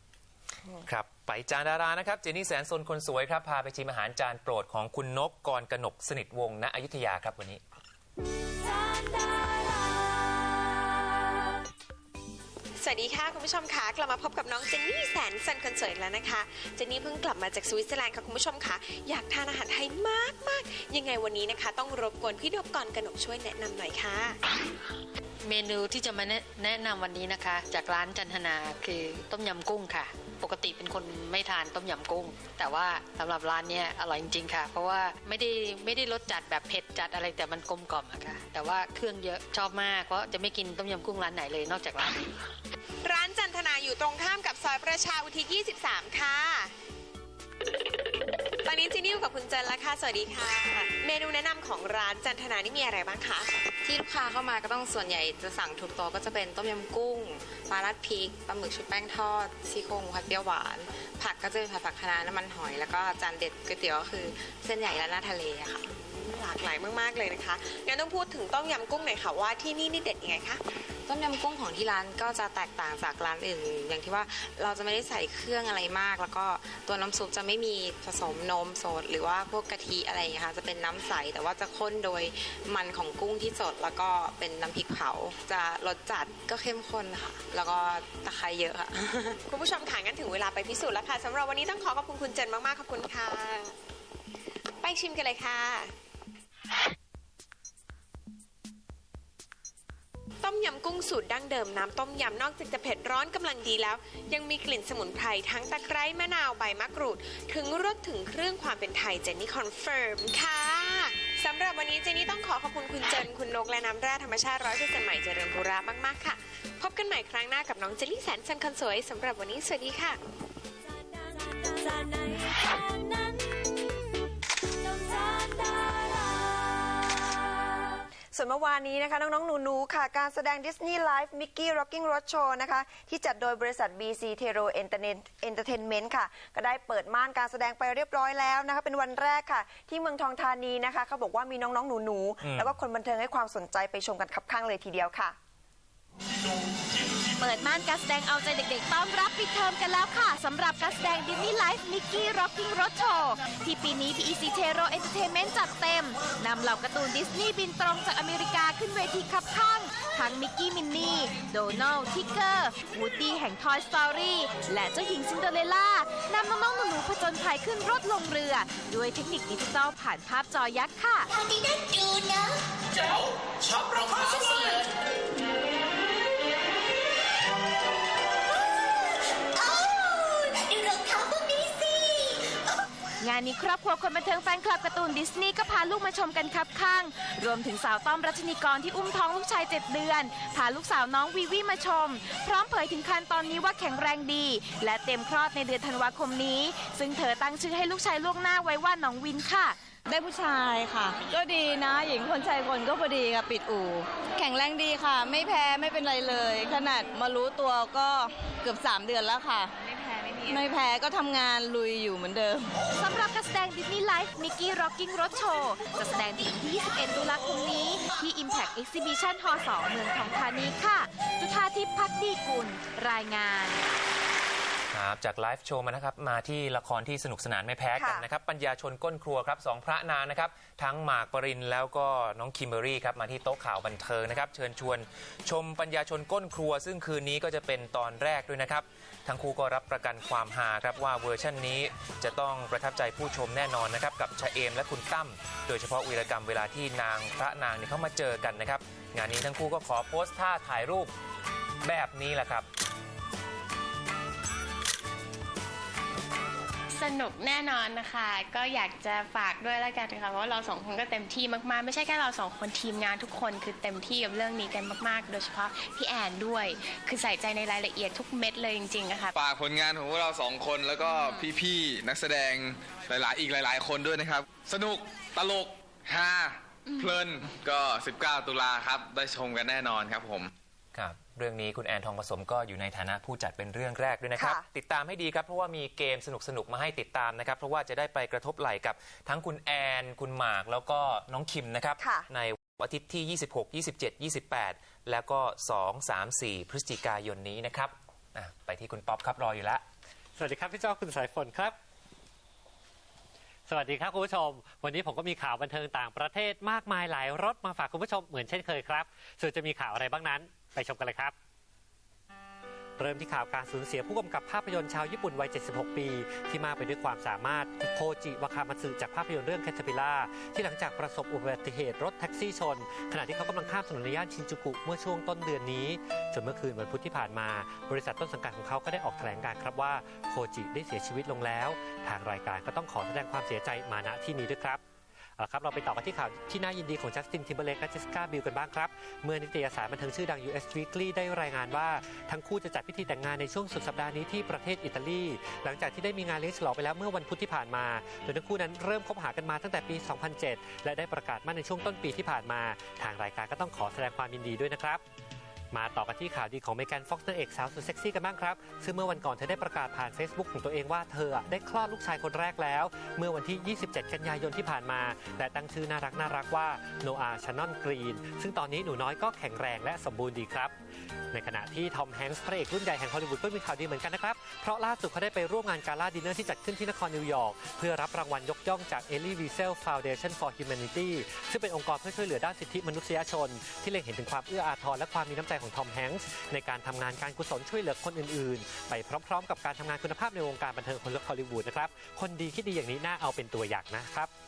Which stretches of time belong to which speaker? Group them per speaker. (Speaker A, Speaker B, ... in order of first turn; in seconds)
Speaker A: 0.8-7.6, 142.4-142.8, 224.9-251.1, 251.8-252.7, 280.9-299.8
Speaker B: 12.8-24.4, 43.0-46.7, 48.6-53.5, 65.9-70.6, 89.5-93.7, 94.8-95.9, 100.4-120.2
Speaker C: 25.4-42.2
Speaker D: 53.8-65.9, 71.1-89.4
Speaker E: 128.3-145.4, 227.9-228.3, 284.4-284.7, 292.0-292.3
Speaker F: 147.4-171.2, 183.2-199.8, 213.0-223.8
Speaker G: 200.1-209.6, 210.5-212.6
Speaker H: 256.9-269.4
Speaker I: 269.4-280.5
Speaker J: 300.4-301.8, 303.7-311.3, 313.0-334.8, 335.4-355.0, 355.7-370.7, 371.3-394.3